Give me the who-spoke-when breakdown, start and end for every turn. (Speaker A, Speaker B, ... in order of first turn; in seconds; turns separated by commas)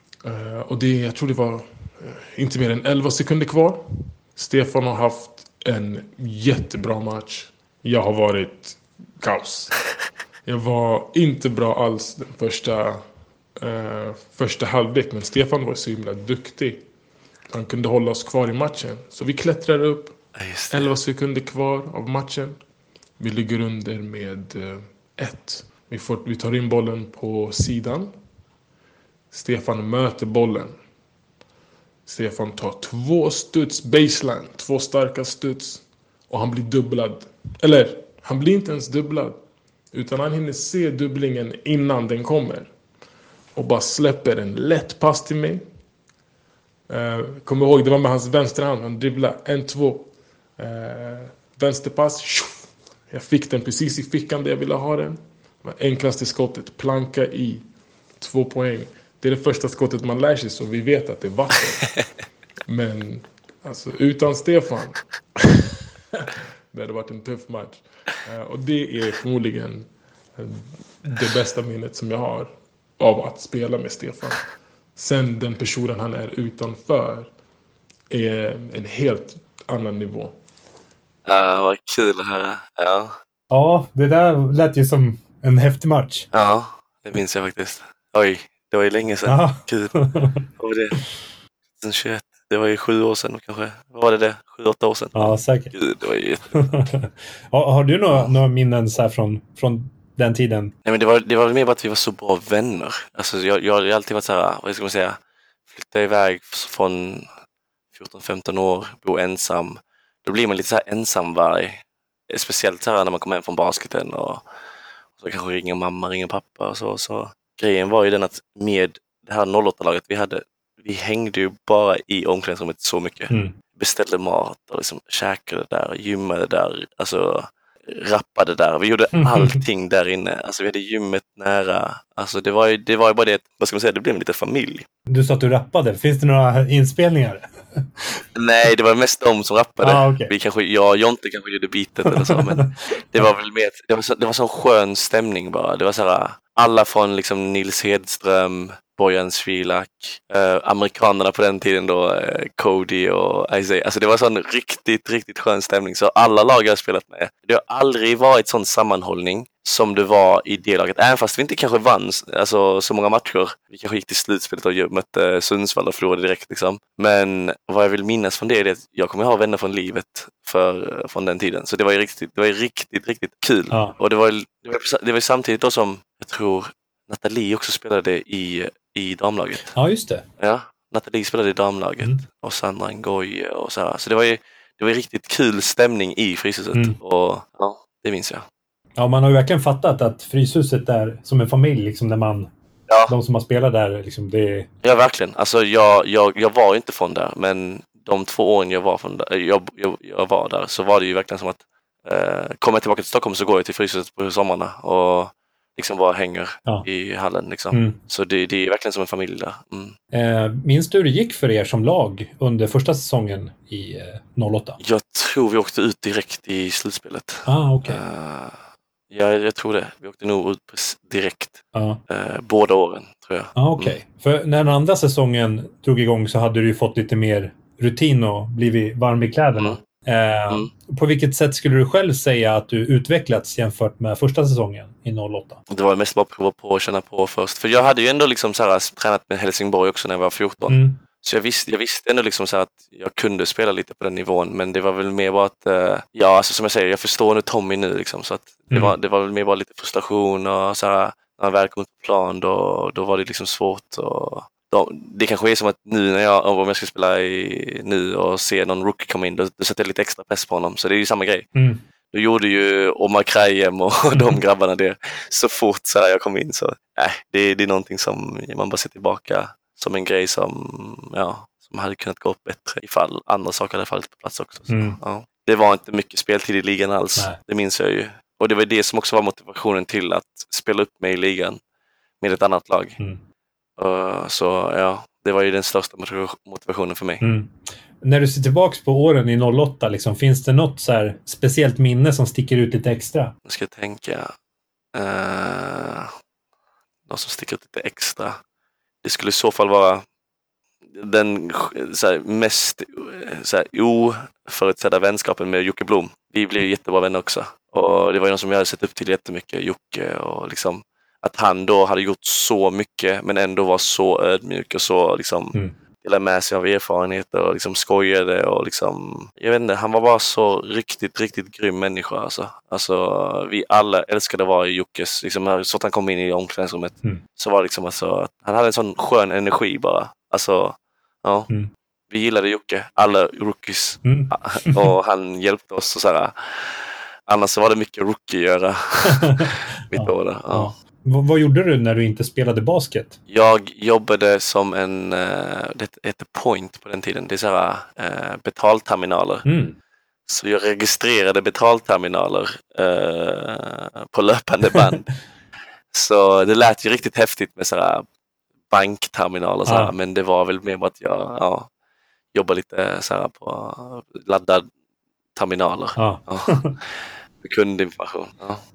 Speaker A: 0.2-13.0, Speaker A: 13.6-16.9, Speaker A: 17.5-20.2, Speaker B: 20.4-20.9, Speaker A: 20.7-22.6, Speaker A: 23.2-28.1, Speaker A: 29.3-30.7, Speaker A: 32.1-39.4, Speaker A: 39.9-42.7, Speaker A: 43.5-45.6, Speaker A: 46.9-62.1, Speaker A: 62.7-65.5, Speaker A: 66.7-77.3, Speaker A: 78.1-80.3, Speaker B: 81.3-83.2, Speaker C: 83.5-86.3, Speaker B: 86.3-91.1, Speaker C: 89.2-90.4, Speaker B: 91.8-96.7, Speaker C: 95.2-95.7, Speaker C: 96.6-100.7, Speaker B: 100.8-105.2, Speaker B: 105.7-107.3, Speaker B: 107.9-114.4, Speaker B: 115.2-134.9, Speaker C: 129.2-129.6, Speaker C: 135.1-138.2, Speaker B: 138.3-179.7, Speaker C: 139.8-140.3, Speaker C: 142.1-142.7, Speaker C: 179.7-180.2, Speaker B: 180.4-188.4, Speaker C: 189.0-192.5, Speaker B: 192.9-193.1, Speaker C: 193.1-194.7, Speaker B: 194.8-209.9, Speaker C: 207.7-208.0, Speaker C: 210.1-214.8, Speaker B: 214.8-218.6, Speaker C: 217.5-218.0, Speaker B: 219.1-224.0, Speaker C: 221.7-222.0, Speaker C: 223.6-235.6, Speaker B: 235.7-261.5, Speaker C: 240.7-241.0, Speaker C: 261.6-261.8, Speaker B: 262.1-281.6, Speaker C: 274.7-275.0, Speaker B: 282.2-283.0, Speaker B: 283.8-287.2, Speaker C: 287.2-293.3, Speaker B: 293.5-294.3, Speaker B: 294.9-296.1, Speaker B: 297.1-298.4, Speaker B: 299.0-300.1, Speaker B: 300.9-331.5, Speaker B: 332.1-340.7, Speaker C: 334.0-334.9, Speaker C: 339.9-343.2, Speaker B: 343.3-349.4, Speaker C: 349.4-349.8, Speaker B: 350.3-355.1, Speaker B: 355.9-358.1, Speaker B: 358.7-361.7, Speaker C: 359.7-359.9, Speaker B: 362.3-364.6, Speaker B: 365.4-368.6, Speaker C: 366.0-366.8